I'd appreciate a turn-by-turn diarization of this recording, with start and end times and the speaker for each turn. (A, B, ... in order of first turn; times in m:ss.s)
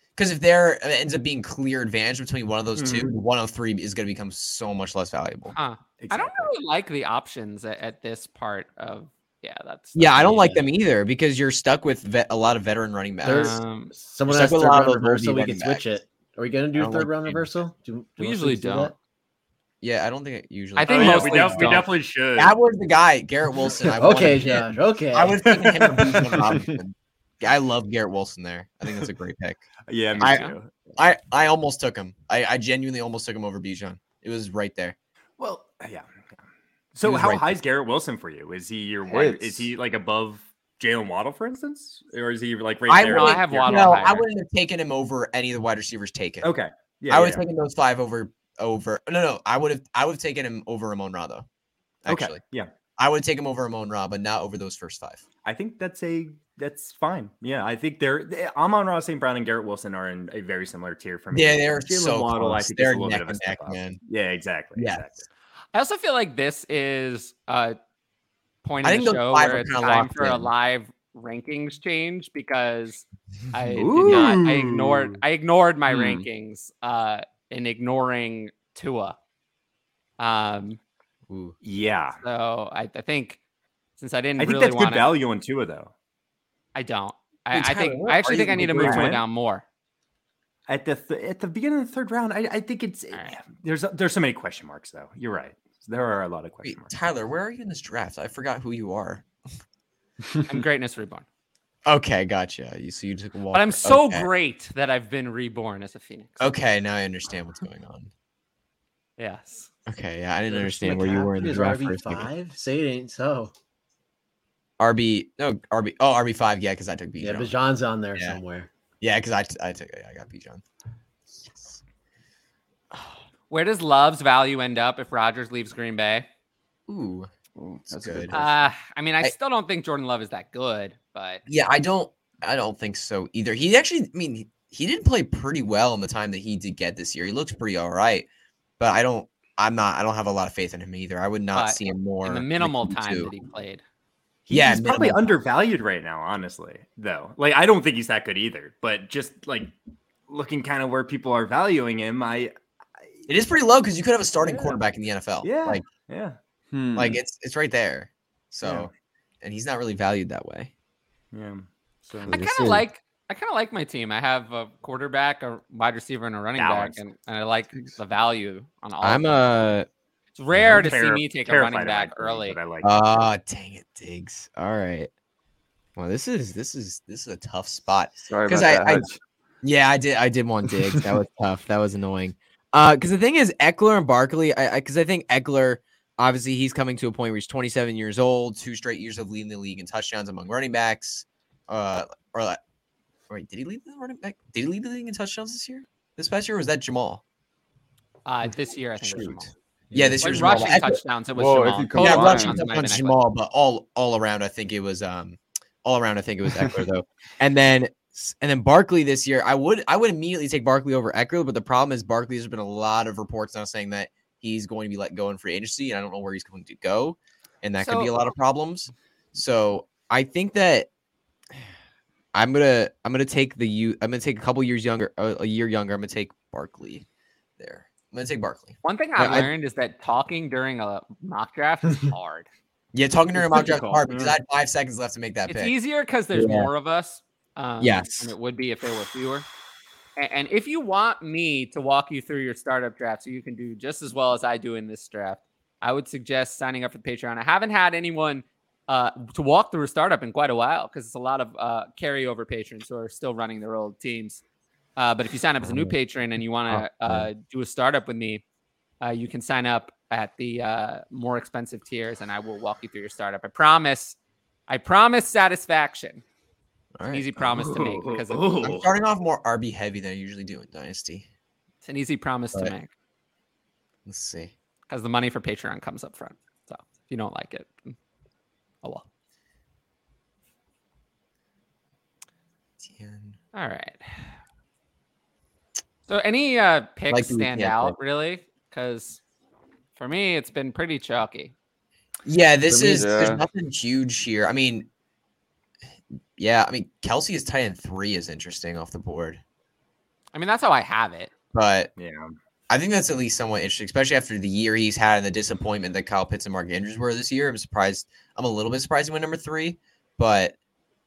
0:00.2-0:05.6 A
0:02.8-0:03.1 B
0:05.5-0:10.6 C
0:06.0-0:06.5 B
0:10.0-0:13.6 A
0:13.2-0:13.9 C
0:13.2-0:18.9 D
0:14.3-0:15.8 A
0:16.8-0:17.4 A
0:18.2-0:18.9 C
0:19.8-0:35.0 A
0:20.8-0:21.9 C
0:20.8-0:22.6 B
0:24.0-0:25.4 D
0:25.4-0:26.6 B
0:29.9-0:30.7 B
0:30.1-0:30.5 C
0:35.4-0:36.1 B
0:37.0-0:44.1 B
0:37.0-0:37.6 A
0:39.1-0:39.7 E
0:42.9-0:46.6 A
0:43.1-0:44.3 C
0:46.4-0:47.4 B
0:47.1-0:51.5 A
0:52.0-0:52.4 A
0:52.1-0:52.7 B
0:53.0-0:55.2 A
0:55.4-1:05.3 B
1:01.3-1:04.0 A
1:04.8-1:05.1 A
1:05.7-1:07.8 C
1:08.6-1:19.2 C
1:08.8-1:10.5 A
1:13.8-1:15.2 B
1:15.9-1:16.2 B
1:20.2-1:20.8 C
1:21.3-1:21.6 A
1:21.6-1:22.2 B
1:22.2-1:23.4 C
1:24.0-1:25.1 C
1:24.4-1:25.9 B
1:26.8-1:29.6 C
1:27.5-1:29.1 A
1:28.3-1:29.2 B
1:30.7-1:36.9 B
1:36.6-1:39.2 A
1:40.5-1:41.2 C
1:41.9-1:44.3 A
1:43.5-1:46.5 C
1:46.4-1:48.1 A
1:49.2-1:49.7 C
1:49.9-1:52.3 A
1:50.5-1:53.5 D
1:54.8-1:57.5 A
1:57.2-1:58.7 D
1:59.0-2:00.6 A
2:01.3-2:01.8 A
2:02.9-2:03.2 A
2:03.5-2:06.3 C
2:06.9-2:07.3 A
2:07.6-2:08.5 E
2:07.9-2:08.4 A
2:08.3-2:11.4 C
2:11.5-2:18.3 A
2:18.8-2:23.3 A
2:21.6-2:23.8 C
2:24.5-2:29.7 B
2:24.5-2:25.2 A
2:30.3-2:32.5 B
2:33.3-2:35.8 A
2:34.4-2:34.8 B
2:35.4-2:36.4 B
2:36.7-2:37.2 E
2:37.0-2:38.9 A
2:38.6-2:38.9 B
2:39.4-2:40.7 A
2:41.3-2:42.4 B
2:42.3-2:42.9 A
2:42.3-2:49.5 C
2:46.6-2:47.0 B
2:49.0-2:49.9 A
2:50.4-2:52.6 C
2:50.5-2:50.9 A
2:50.8-2:53.2 B
2:52.8-2:55.1 A
2:56.0-2:59.1 A
2:58.3-2:59.2 E
2:59.6-3:12.6 A
3:13.3-3:17.2 A
3:18.3-3:19.5 C
3:19.9-3:20.5 E
3:19.9-3:21.0 A
3:20.2-3:23.2 C
3:21.4-3:22.7 E
3:22.0-3:40.9 A
3:37.8-3:38.1 C
3:42.3-3:47.0 A
3:47.6-3:49.5 A
3:48.8-3:52.5 C
3:52.9-3:55.7 A
3:53.5-3:53.8 C
3:53.6-3:54.4 B
3:55.5-3:59.5 C
3:56.3-3:56.7 A
3:57.8-3:58.3 A
4:00.2-4:14.4 C
4:15.0-4:18.4 C
4:15.6-4:15.9 A
4:16.7-4:17.3 A
4:19.0-4:24.2 C
4:24.7-4:26.2 C
4:27.0-4:27.4 A
4:27.1-4:28.6 C
4:27.5-4:28.9 B
4:28.6-4:31.3 A
4:31.8-4:32.9 C
4:34.1-4:34.5 A
4:34.9-4:38.0 C
4:42.8-4:43.4 A
4:43.5-4:44.0 C
4:46.1-4:49.2 C
4:47.1-4:48.0 A
4:50.0-4:51.5 C
4:52.3-4:54.9 A
4:52.7-4:53.4 E
4:56.4-4:59.4 A
5:00.3-5:01.3 C
5:01.5-5:01.9 A
5:02.0-5:02.4 B
5:02.7-5:10.6 A